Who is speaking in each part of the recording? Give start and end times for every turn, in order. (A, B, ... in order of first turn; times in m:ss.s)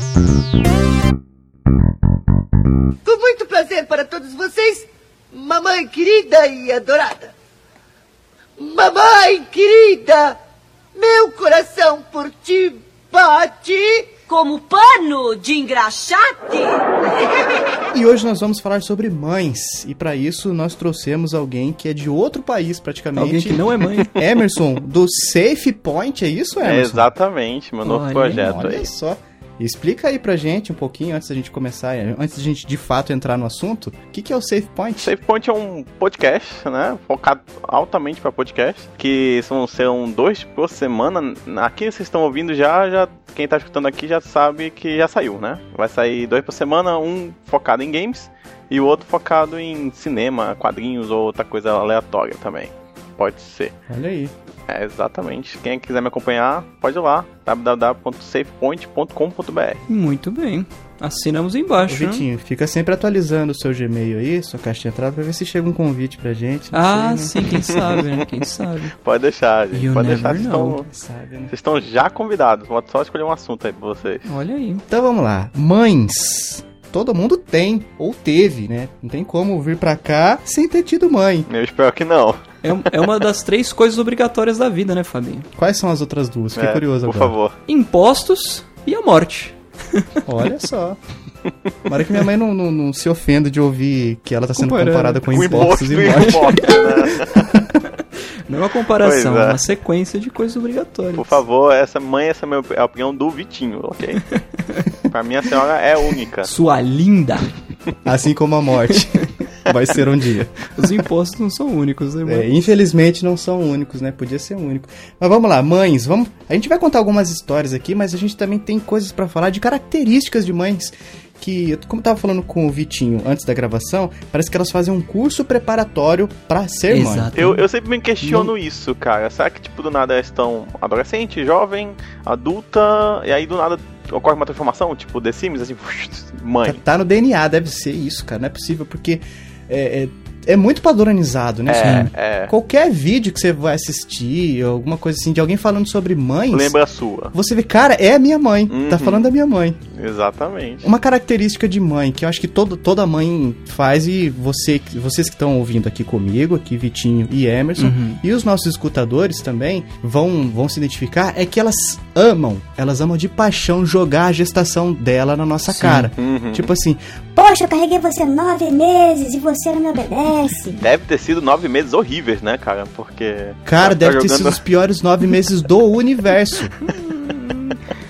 0:03.1-0:07.3 A
0:08.6-0:10.4 A
0:11.0-0:17.3 A
0:17.9-0:27.1 B
0:23.2-0:24.1 C
0:26.6-0:28.9 D
0:27.8-0:28.6 C
0:28.3-0:35.1 B
0:35.0-0:53.7 D
0:53.9-0:54.3 B
0:54.7-0:59.8 D
0:59.9-1:02.2 C
1:01.9-1:07.5 B
1:06.7-1:08.9 C
1:07.7-1:08.3 D
1:09.0-1:10.9 D
1:09.7-1:10.8 C
1:10.9-1:11.5 B
1:11.5-1:14.2 D
1:14.3-1:14.8 C
1:14.9-1:21.5 B
1:21.5-1:22.4 D
1:22.6-1:25.5 C
1:25.6-1:27.4 B
1:26.6-1:27.6 D
1:27.7-1:30.1 C
1:30.2-1:31.0 B
1:31.9-1:37.4 B
1:34.6-1:36.7 C
1:35.3-1:37.6 D
1:38.5-1:41.4 C
1:39.0-1:39.6 D
1:41.2-1:44.2 D
1:45.1-1:46.5 D
1:46.4-1:47.5 C
1:48.0-1:51.0 B
1:48.9-1:49.2 C
1:50.8-1:52.5 C
1:52.3-2:07.3 B
2:06.9-2:07.6 C
2:07.4-2:16.8 D
2:08.2-2:08.5 B
2:16.7-2:26.8 B
2:21.7-2:22.5 D
2:21.8-2:22.1 C
2:26.5-2:27.4 D
2:27.3-2:29.8 B
2:28.7-2:29.3 D
2:29.9-2:30.9 D
2:30.8-2:47.0 B
2:37.8-2:38.2 C
2:45.7-2:46.1 C
2:46.2-2:46.7 D
2:47.4-2:50.8 E
2:50.8-2:54.6 D
2:53.7-2:56.7 B
2:57.0-2:57.8 C